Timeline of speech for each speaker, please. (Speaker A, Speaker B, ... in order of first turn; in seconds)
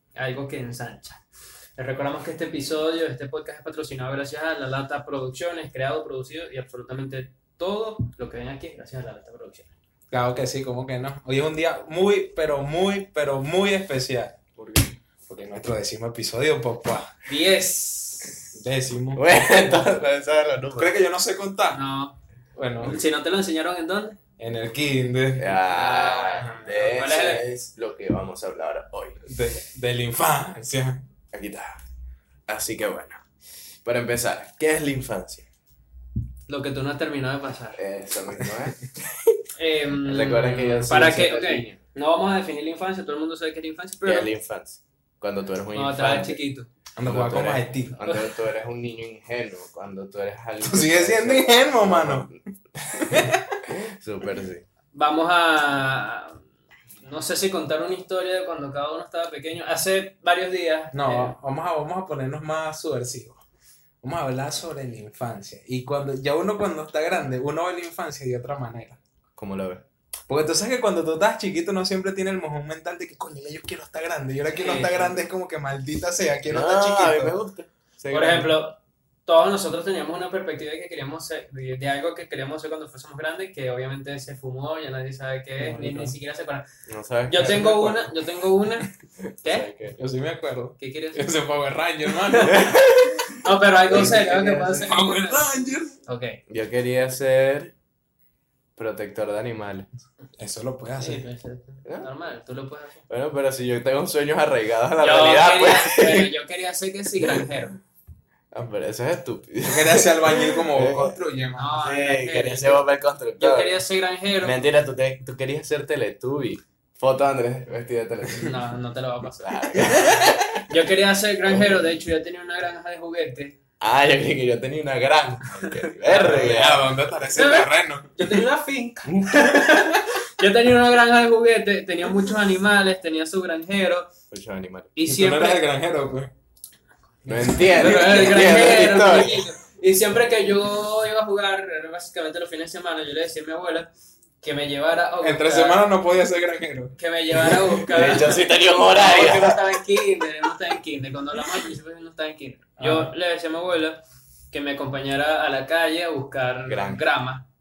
Speaker A: 0.1-1.2, 1.8-9.7, 17.3-18.4, 21.7-22.1, 22.8-24.2, 25.6-27.4, 36.5-37.8, 39.6-44.3, 45.7-46.7, 48.0-48.3, 54.9-56.4, 57.0-61.3, 74.5-75.1, 78.1-86.6, 87.3-88.9, 89.4-89.7, 90.8-91.2, 92.3-92.7, 93.4-95.4, 96.1-96.4, 101.0-103.0, 105.0-107.8, 111.5-112.8, 113.4-114.6, 118.4-123.6, 125.7-126.6, 127.3-134.1, 134.9-135.6, 137.6-143.9, 144.4-145.8, 147.0-157.4
Speaker B: 10.1-14.3, 15.3-17.1, 18.5-19.2, 20.8-21.8, 22.6-23.0, 24.4-25.5, 26.5-26.8, 29.2-31.0, 47.0-48.0, 50.6-52.3, 53.0-53.6, 60.9-63.4, 64.0-69.0, 70.3-77.3, 85.6-86.1, 87.4-87.7, 90.0-92.8, 94.9-95.9, 100.4-101.2, 109.6-111.7, 119.8-120.3, 126.5-128.1, 135.1-136.3, 137.3-138.2, 145.2-147.5, 152.8-153.1
Speaker C: 14.6-14.9, 19.1-20.9, 25.4-29.2, 31.3-31.8, 32.5-33.2, 33.8-35.4, 37.8-39.4, 40.0-41.8, 44.0-46.4, 47.0-54.6, 69.3-69.8, 76.5-78.5, 86.9-88.1, 89.4-90.0, 92.5-95.0, 96.5-97.7, 98.8-99.9, 101.8-102.1, 103.1-106.3, 108.5-111.2, 111.8-113.8, 114.4-118.5, 119.4-120.7, 121.5-121.8, 123.8-126.8, 129.0-129.6, 134.3-134.9, 137.2-139.4, 147.8-149.8, 156.7-157.0